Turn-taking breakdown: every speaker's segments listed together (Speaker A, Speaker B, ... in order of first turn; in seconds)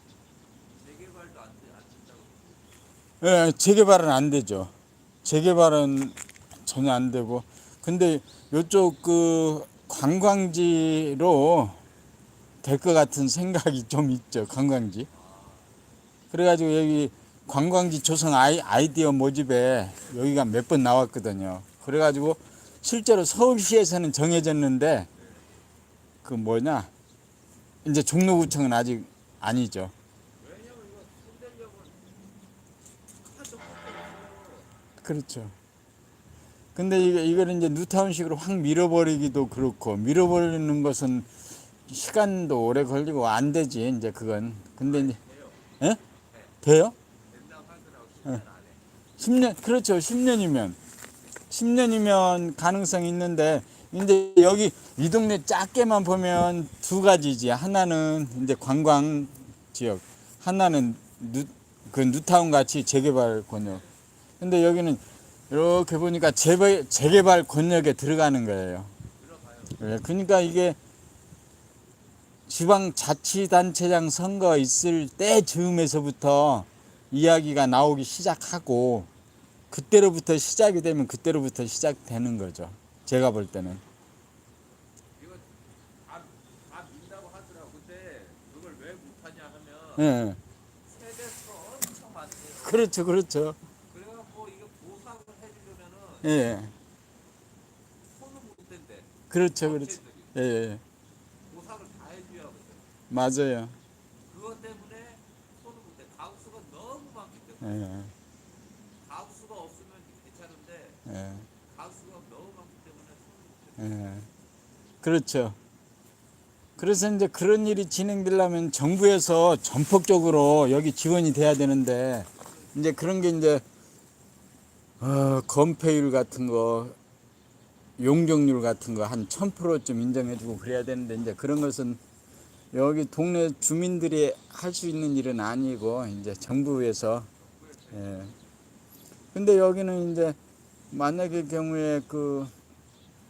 Speaker A: 0.7-2.7, 15.1-15.7, 25.2-25.4, 30.4-32.0, 33.2-34.7, 44.8-45.6, 47.3-48.8, 69.2-69.8, 85.2-85.5, 86.0-90.1, 90.9-92.9, 93.9-96.3, 98.1-100.3, 101.5-102.9, 104.3-108.0, 109.0-111.0, 111.7-113.9, 137.4-138.4
Speaker B: 3.2-4.7, 5.2-11.8, 12.6-15.1, 16.3-25.1, 26.2-26.9, 27.8-29.9, 35.0-35.5, 36.7-41.3, 41.9-45.2, 46.6-47.0, 49.2-50.8, 51.5-63.8, 64.4-68.9, 69.8-70.8, 72.5-79.1, 79.7-83.8, 90.0-90.4, 92.6-93.6, 96.2-96.7, 99.3-100.8, 103.1-103.8, 107.6-108.1, 111.0-111.5, 113.8-114.3, 115.0-115.5, 116.8-123.6, 125.0-127.0, 128.0-132.0, 132.7-137.3, 137.9-138.3, 139.3-140.4, 140.9-142.5